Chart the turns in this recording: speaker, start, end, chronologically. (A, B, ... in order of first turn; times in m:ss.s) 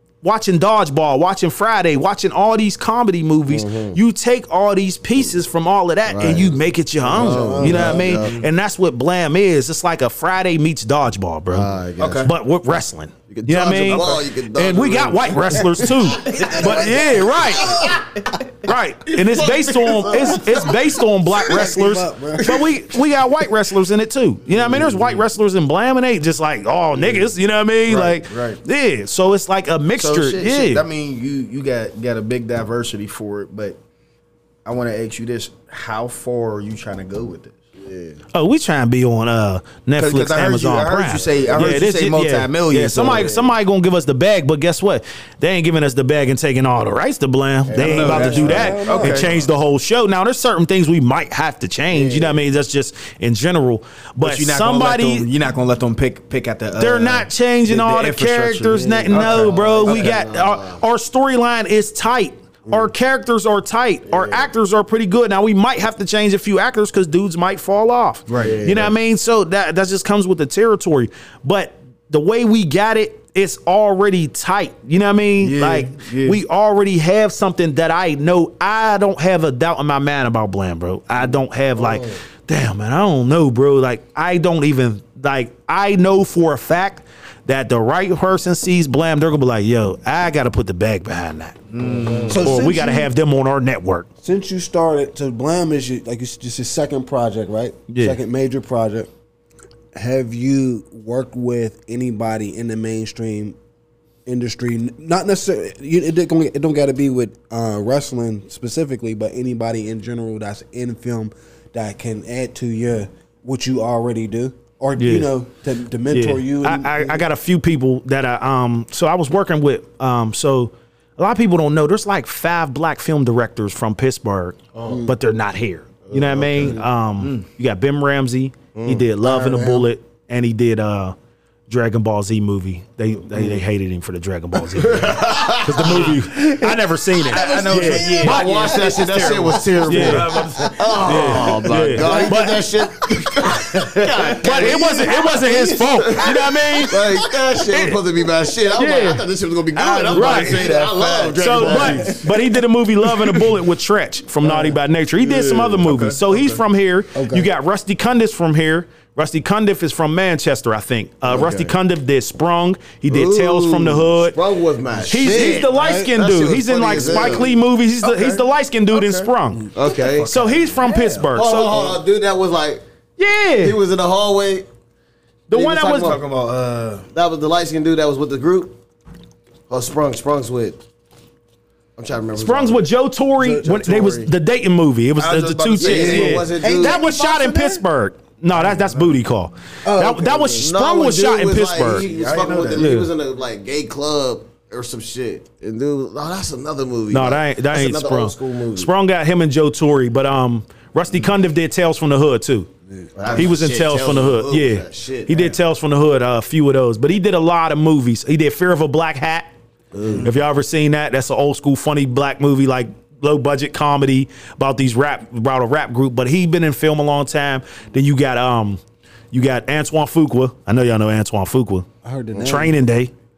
0:00.2-0:11.7 A
0:03.5-0:04.0 B
0:06.1-0:08.4 B
0:07.1-0:08.1 C
0:07.7-0:08.4 D
0:11.5-0:12.3 B
0:12.0-0:12.3 D
0:12.2-0:17.9 A
0:13.3-0:18.0 B
0:16.2-0:18.4 C
0:18.6-0:30.8 A
0:19.1-0:20.8 B
0:20.2-0:20.4 C
0:21.4-0:22.8 C
0:24.5-0:24.8 D
0:24.6-0:25.1 B
0:27.9-0:28.6 D
0:30.0-0:33.8 D
0:34.6-0:37.6 D
0:37.8-0:38.2 B
0:38.3-0:55.3 A
0:40.0-0:43.4 D
0:47.7-0:49.3 D
0:47.8-0:48.7 B
0:47.8-0:49.5 C
0:51.9-0:52.4 B
0:54.2-1:00.1 D
0:56.8-1:31.6 A
0:58.7-1:00.8 B
1:04.1-1:04.5 B
1:08.3-1:08.6 D
1:08.4-1:08.9 B
1:15.4-1:16.4 D
1:21.8-1:22.1 B
1:31.7-1:32.6 D
1:31.8-1:32.6 B
1:32.2-1:33.1 C
1:32.4-1:34.1 A
1:34.2-1:39.1 C
1:37.9-1:38.2 A
1:39.9-1:43.6 C
1:44.2-1:57.2 C
1:55.0-1:55.3 A
1:56.1-2:11.1 A
2:04.7-2:05.1 B
2:06.1-2:06.8 B
2:08.7-2:09.9 B
2:11.7-2:18.4 A
2:14.7-2:16.2 B
2:17.2-2:22.1 D
2:17.4-2:17.9 C
2:17.9-2:32.2 B
2:19.9-2:20.4 A
2:21.0-2:22.6 A
2:23.5-2:24.9 D
2:24.2-2:28.0 A
2:28.7-2:29.2 A
2:29.8-2:32.3 D
2:29.8-2:30.7 A
2:31.4-2:44.3 A
2:33.2-2:33.5 D
2:35.3-2:36.6 D
2:37.1-2:37.5 C
2:41.3-2:41.7 B
2:43.1-2:47.5 B
2:45.1-2:49.7 A
2:45.1-2:46.1 C
2:48.0-2:48.4 D
2:48.9-2:50.3 B
2:50.0-2:51.9 D
2:50.2-2:51.9 A
2:51.3-2:52.8 B
2:53.2-2:53.8 A
2:53.6-2:54.6 B
2:55.5-2:56.2 A
2:55.5-2:56.2 B
2:55.9-2:57.0 D
2:57.1-2:58.7 B
2:59.7-3:00.8 B
3:02.0-3:02.9 B
3:02.4-3:12.0 A
3:03.4-3:04.3 B
3:05.2-3:06.4 D
3:05.8-3:07.0 B
3:05.9-3:07.8 C
3:08.5-3:09.1 D
3:09.8-3:10.6 C
3:10.6-3:18.9 B
3:11.9-3:12.9 D
3:12.8-3:13.1 A
3:17.1-3:22.7 A
3:23.2-3:25.6 B
3:23.3-3:29.5 A
3:29.9-3:30.3 B
3:30.2-3:38.8 A
3:39.3-3:41.9 A
3:42.0-3:42.7 C
3:42.3-3:42.6 B
3:42.4-3:43.1 A